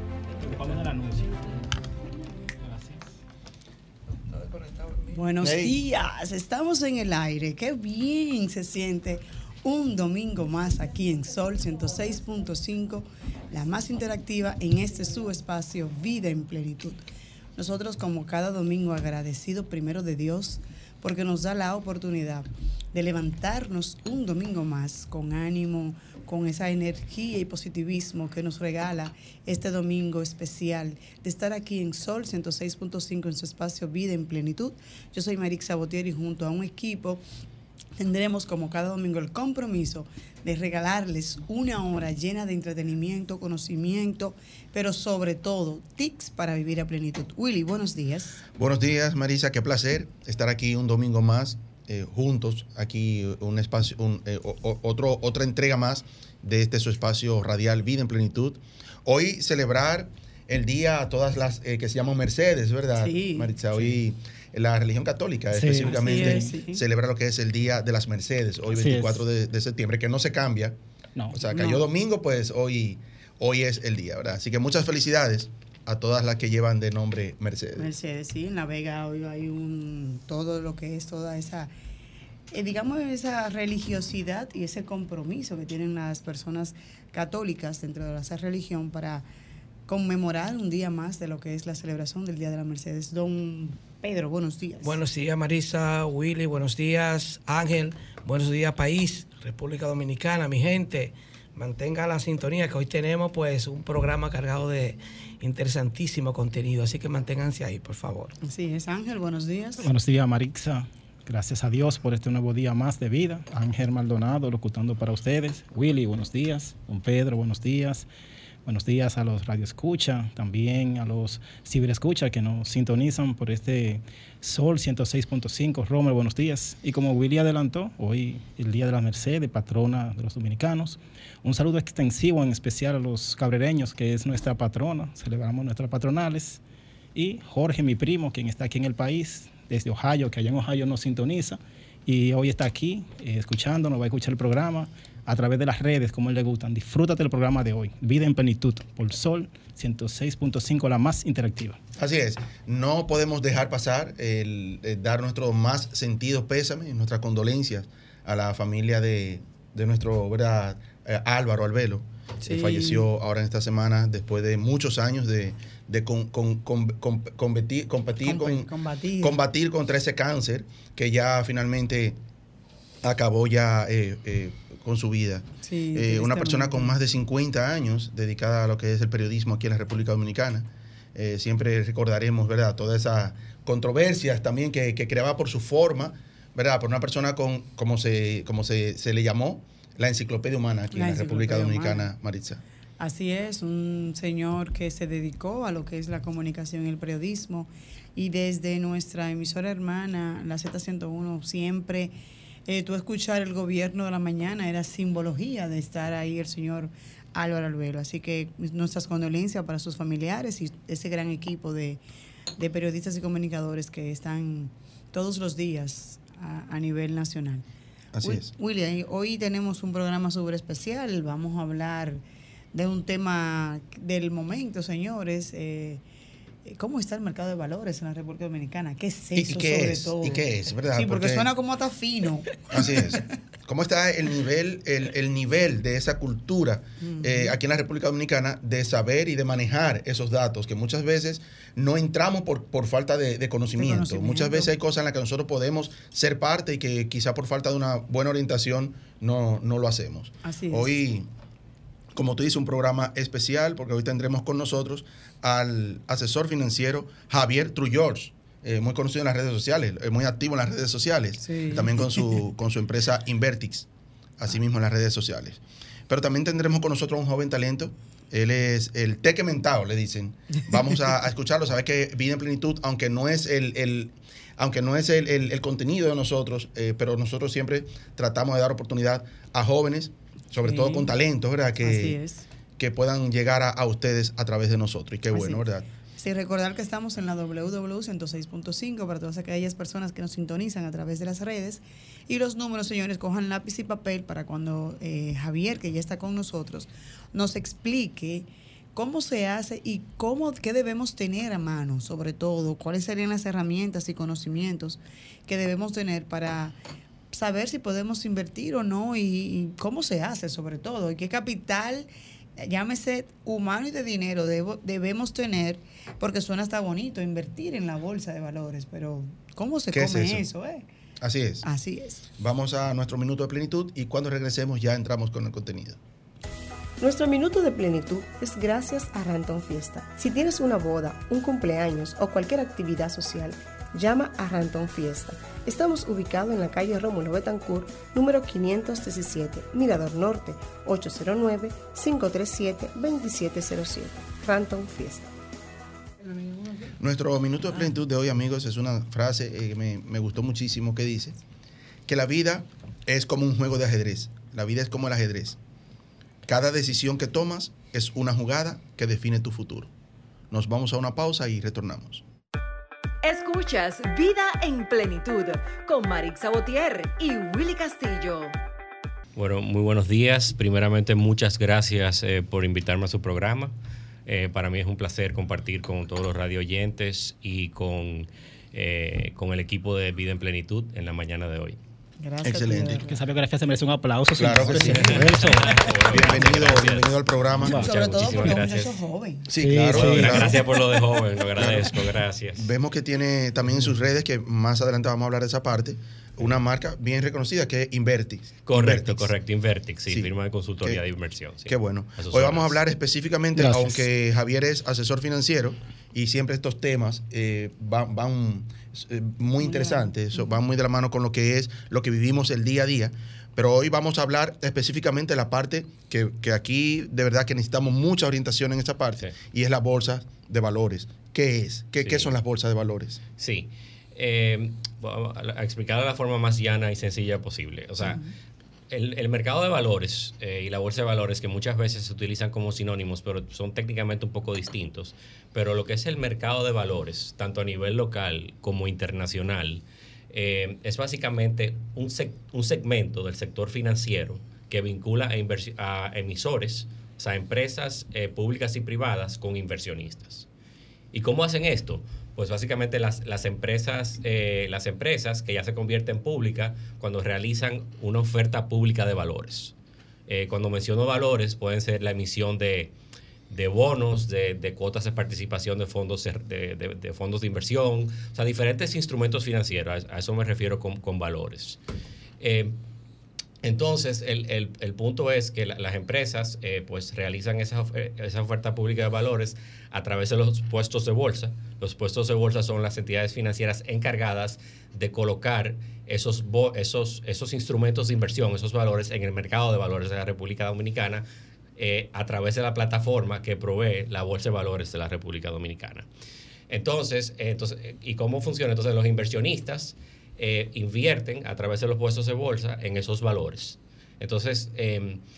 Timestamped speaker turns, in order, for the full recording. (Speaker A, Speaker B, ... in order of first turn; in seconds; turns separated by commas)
Speaker A: 0.4-1.6, Speaker A: 2.6-3.1, Speaker B: 4.5-5.0, Speaker C: 5.1-17.0, Speaker D: 5.4-5.8, Speaker C: 17.6-37.2, Speaker C: 38.0-48.4, Speaker D: 48.6-70.8, Speaker C: 63.0-63.5, Speaker A: 65.5-66.5, Speaker C: 65.8-66.8, Speaker A: 68.8-69.2, Speaker D: 71.3-77.9, Speaker C: 71.5-71.8, Speaker C: 77.8-81.7, Speaker C: 82.5-89.3, Speaker C: 89.9-95.0, Speaker B: 94.8-108.3, Speaker C: 108.4-109.9, Speaker A: 109.8-118.1, Speaker A: 118.7-136.6, Speaker A: 137.2-151.8, Speaker D: 152.0-172.2, Speaker C: 162.4-163.1, Speaker C: 168.2-169.4, Speaker D: 173.0-192.6, Speaker C: 175.6-176.9, Speaker C: 190.9-192.1, Speaker C: 193.0-202.1, Speaker C: 202.7-212.0, Speaker C: 212.6-217.7, Speaker D: 218.1-218.5, Speaker C: 218.2-222.2, Speaker C: 222.7-226.0, Speaker C: 226.7-232.8, Speaker D: 229.4-231.5, Speaker D: 232.7-251.3, Speaker C: 237.0-237.6, Speaker C: 243.8-244.7, Speaker C: 250.4-251.0, Speaker D: 252.1-263.9, Speaker C: 261.4-262.0, Speaker D: 264.4-282.2, Speaker C: 280.6-281.1, Speaker C: 281.8-282.4, Speaker D: 282.8-285.9, Speaker C: 285.3-285.6, Speaker C: 286.2-306.8, Speaker C: 307.3-320.8, Speaker D: 319.9-320.4, Speaker D: 321.2-321.6, Speaker C: 321.6-322.3, Speaker D: 322.4-326.0, Speaker E: 327.0-345.3, Speaker C: 346.2-346.9, Speaker D: 347.0-351.4, Speaker D: 352.1-355.6, Speaker D: 356.5-359.9, Speaker D: 360.5-362.2, Speaker F: 363.2-368.6, Speaker G: 369.4-373.7, Speaker G: 374.3-381.8, Speaker C: 382.2-383.2, Speaker D: 382.4-383.1, Speaker A: 383.0-386.4, Speaker D: 384.4-387.9, Speaker G: 384.8-387.2, Speaker A: 387.6-387.9, Speaker G: 387.7-389.0, Speaker C: 387.8-389.5, Speaker D: 389.5-390.7, Speaker A: 389.6-390.5, Speaker G: 389.8-392.7, Speaker D: 391.6-399.3, Speaker G: 398.7-402.8, Speaker D: 401.7-423.2, Speaker A: 403.6-404.0, Speaker C: 409.6-410.5, Speaker G: 423.4-428.2, Speaker G: 428.9-450.5, Speaker G: 451.1-459.7, Speaker G: 460.3-462.9, Speaker G: 463.5-471.8, Speaker G: 472.4-472.8, Speaker G: 473.6-491.2, Speaker G: 491.8-496.1, Speaker G: 496.7-505.2